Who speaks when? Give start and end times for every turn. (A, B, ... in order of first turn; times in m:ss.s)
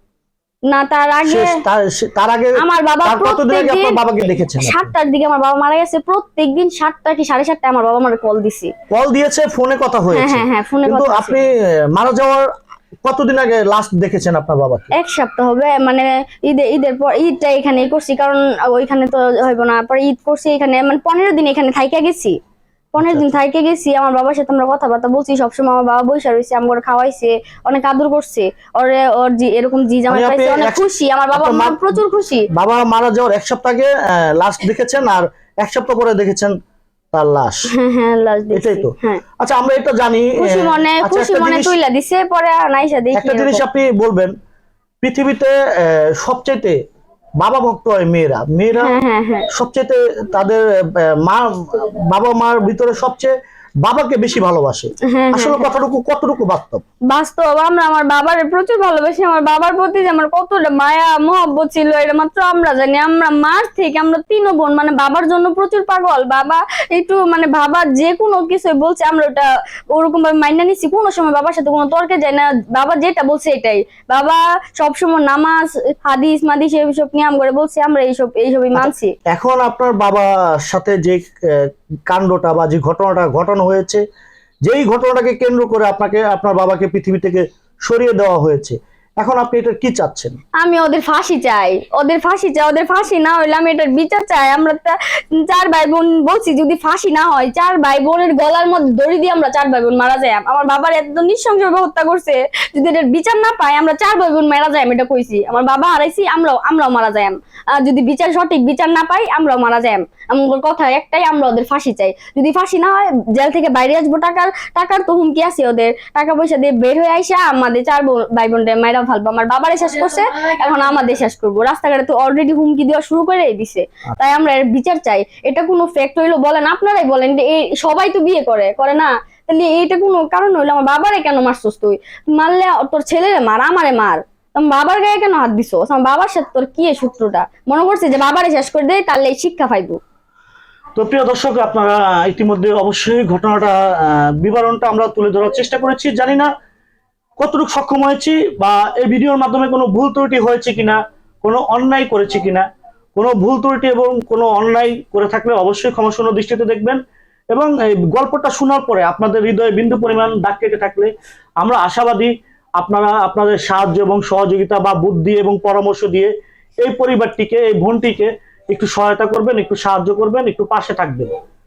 0:00.7-0:01.6 A
0:01.2-0:04.9 B
0:02.6-0:04.0 A
0:04.6-0:08.7 A
0:08.9-0:12.5 B
0:10.1-0:11.4 A
0:13.0-0:14.9 B
0:14.9-0:22.4 A
0:22.9-0:32.5 A
0:23.0-0:23.3 B
0:30.1-0:32.0 B
0:32.5-0:36.5 B
0:37.1-0:37.7 B
0:37.7-0:39.2 A
0:38.5-0:41.7 B
0:40.4-0:43.6 A
0:43.1-0:44.3 B
0:45.0-0:46.8 B
0:47.4-0:48.9 B
0:48.8-0:49.5 A
0:49.5-0:56.8 B
0:55.1-0:55.6 A
0:57.1-1:19.1 A
1:18.7-1:24.0 B
1:24.6-1:30.4 B
1:30.6-2:20.0 A
2:21.0-2:26.5 B
2:27.4-2:37.0 B
2:37.5-2:41.1 B
2:41.6-2:51.3 B